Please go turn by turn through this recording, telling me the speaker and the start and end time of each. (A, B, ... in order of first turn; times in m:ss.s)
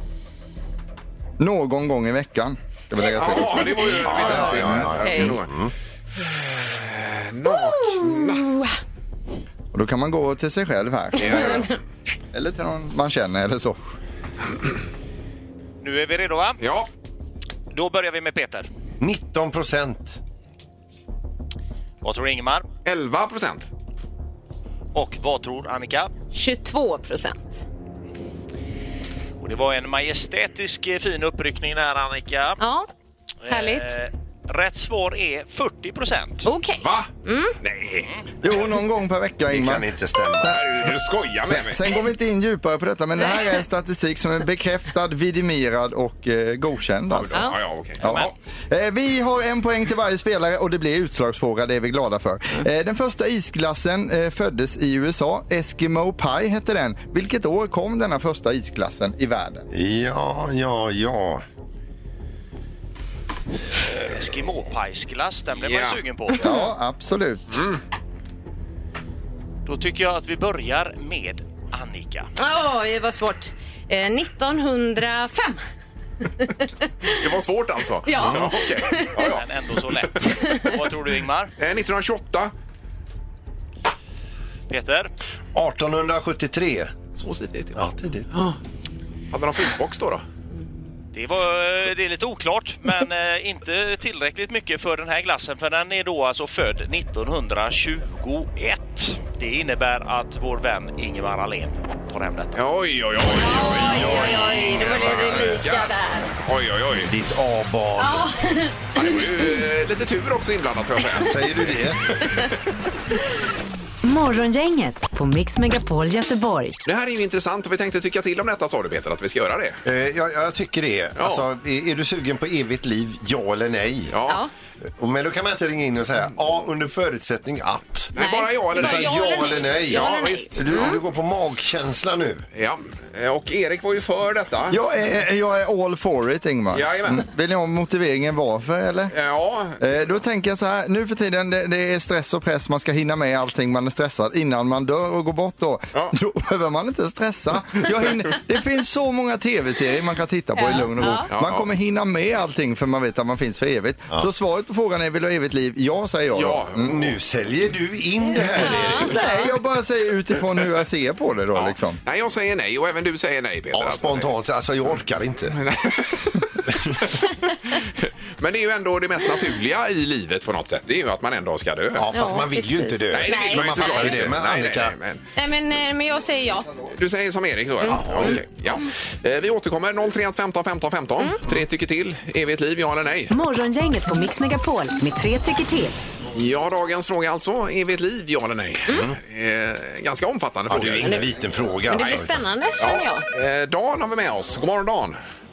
0:01.4-0:04.8 A
0:03.2-0:05.5 B
0:04.0-0:05.7 C
0:05.0-0:05.4 D
0:06.2-0:08.5 B
0:07.5-0:08.7 D
0:09.7-0:11.7 A
0:11.2-0:11.7 B
0:12.3-0:13.8 A
0:15.8-0:16.6 E
0:16.6-0:16.9 B
0:17.7-0:18.7 E
0:19.0-0:20.2 C
0:22.0-0:22.7 E
0:22.8-0:23.7 B
0:24.9-0:26.1 E
0:26.3-0:27.6 D
0:29.4-0:32.6 E
0:32.6-0:32.9 D
0:33.4-0:36.5 E
0:33.5-0:34.0 D
0:36.4-0:37.6 D
0:36.8-0:37.1 B
0:37.6-0:38.1 B
0:38.4-0:40.6 A
0:39.5-0:40.6 C
0:40.4-0:41.8 B
0:41.5-0:47.5 A
0:47.1-0:48.3 B
0:48.0-0:48.3 E
0:48.0-0:59.7 A
0:59.7-1:01.4 C
1:03.8-1:06.4 E
1:05.7-1:06.0 B
1:06.4-1:07.6 A
1:07.5-1:07.8 B
1:09.7-1:12.3 E
1:12.4-1:15.6 D
1:16.4-1:17.1 D
1:17.1-1:19.4 B
1:18.0-1:19.2 D
1:19.2-1:21.5 E
1:20.2-1:20.7 B
1:21.6-1:22.5 B
1:24.7-1:25.1 E
1:25.6-1:26.9 C
1:27.2-1:28.6 B
1:27.8-1:28.3 C
1:29.3-1:30.2 B
1:31.2-1:42.6 E
1:42.6-1:47.1 B
1:43.3-1:45.6 C
1:43.3-1:46.3 D
1:47.0-1:48.3 C
1:48.0-1:49.5 D
1:48.9-1:51.8 B
1:51.2-1:52.5 C
1:54.0-1:56.8 F
1:56.8-1:59.8 B
1:59.8-2:04.1 C
2:01.2-2:01.5 B
2:04.1-2:04.4 B
2:04.8-2:08.1 C
2:08.1-2:10.9 B
2:08.2-2:11.0 D
2:08.7-2:12.4 C
2:12.6-2:14.8 B
2:14.7-2:19.1 A
2:16.7-2:17.2 B
2:19.1-2:19.8 B
2:19.8-2:37.0 A
2:30.6-2:31.3 D
2:31.3-2:31.7 B
2:36.3-2:37.2 B
2:36.8-2:39.3 C
2:38.6-2:39.5 D
2:39.0-2:42.0 A
2:41.6-2:44.3 B
2:43.7-2:45.6 C
2:45.5-2:46.6 B
2:46.7-2:47.0 C
2:47.7-2:52.1 B
2:52.0-2:54.9 C
2:52.1-2:54.3 D
2:53.1-2:55.2 B
2:55.4-2:56.7 D
2:56.9-3:03.3 B
2:57.8-2:58.8 D
2:57.9-2:58.4 C
3:03.3-3:06.0 F
3:06.3-3:11.4 B
3:08.9-3:09.2 C
3:10.7-3:12.4 C
3:11.0-3:11.3 D
3:11.9-3:13.2 D
3:11.9-3:12.2 B
3:12.8-3:15.2 B